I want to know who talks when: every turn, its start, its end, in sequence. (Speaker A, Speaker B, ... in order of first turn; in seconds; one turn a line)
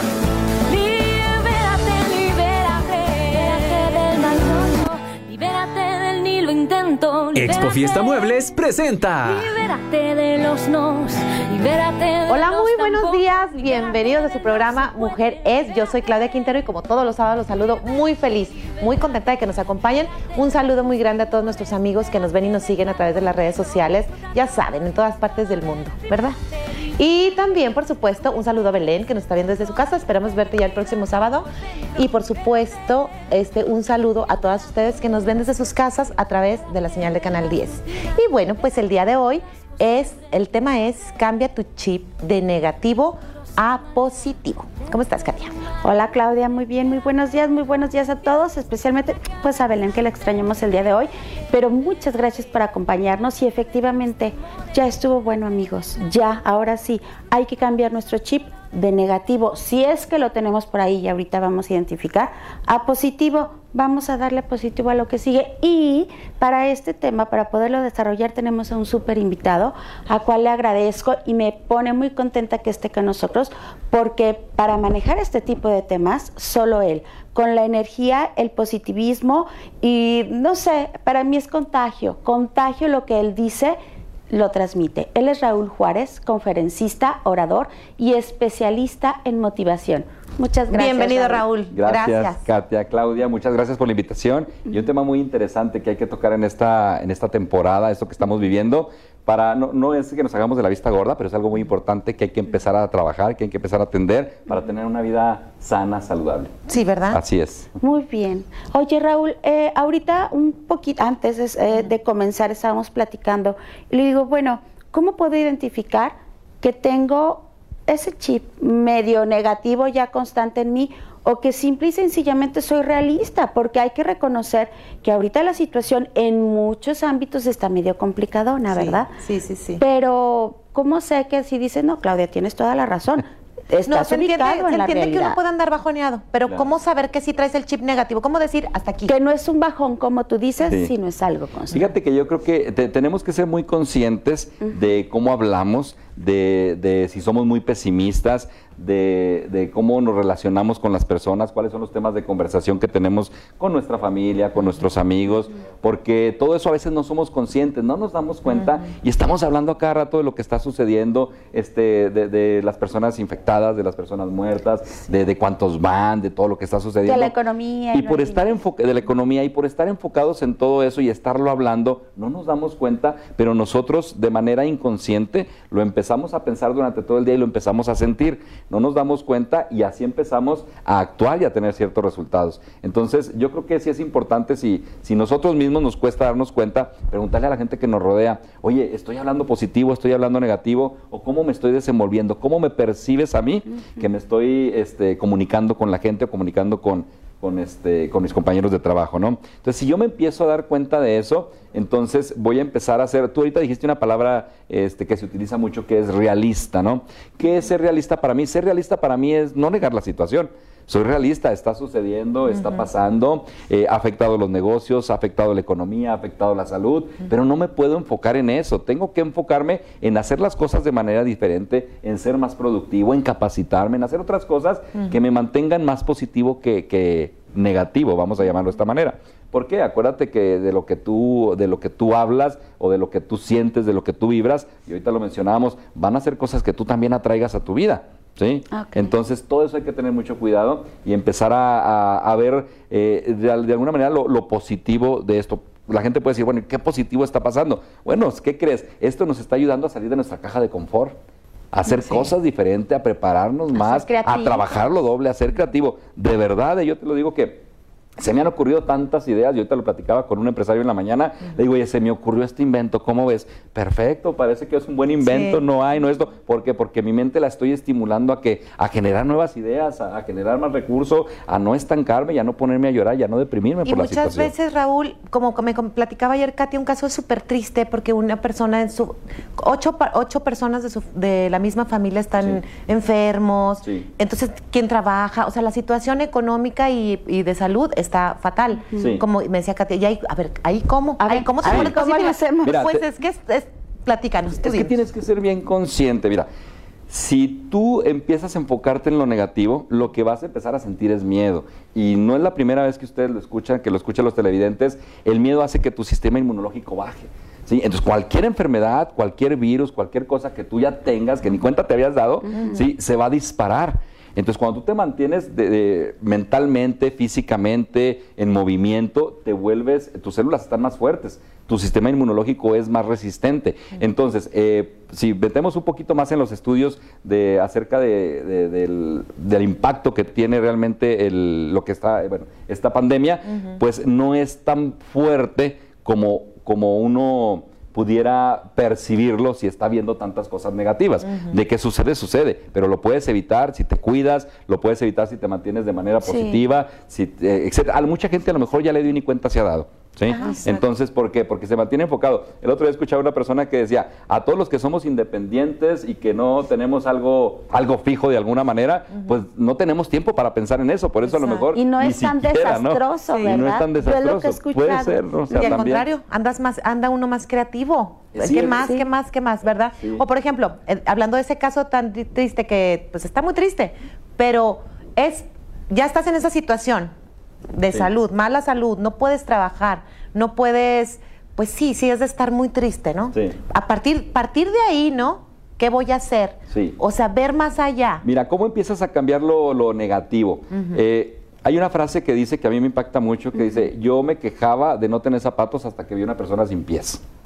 Speaker A: 0.7-8.5
Speaker B: 7.3-9.6
Speaker A: 9.2-15.1
Speaker C: 12.3-26.4
Speaker C: 27.0-45.5
Speaker D: 45.8-83.8
Speaker D: 84.3-91.5
Speaker C: 90.7-92.4
Speaker E: 91.7-106.5
Speaker C: 106.7-107.2
Speaker E: 107.1-107.8
Speaker D: 107.8-129.1
Speaker C: 128.7-129.8
Speaker D: 129.8-135.4
Speaker C: 133.9-139.1
Speaker D: 139.1-141.9
Speaker E: 140.7-140.9
Speaker E: 141.7-167.3
Speaker D: 167.0-168.6
Speaker E: 167.9-251.2
Speaker D: 238.7-239.1
Speaker E: 251.7-257.6
Speaker D: 253.8-254.7
Speaker E: 258.2-274.5
Speaker C: 265.3-265.6
Speaker C: 273.9-294.9
Speaker E: 289.0-289.2
Speaker D: 291.2-292.8
Speaker E: 291.6-292.0
Speaker E: 292.6-293.1
Speaker E: 294.6-296.5
Speaker E: 297.1-366.1
Speaker D: 346.2-346.6
Speaker D: 350.3-350.6
Speaker C: 350.3-350.8
Speaker C: 361.3-361.7
Speaker D: 361.8-365.9
Speaker C: 363.3-363.6
Speaker C: 365.5-377.1
Speaker E: 368.3-369.0
Speaker D: 368.8-369.0
Speaker E: 370.0-370.2
Speaker C: 377.7-388.2
Speaker E: 386.7-387.0
Speaker E: 388.2-397.2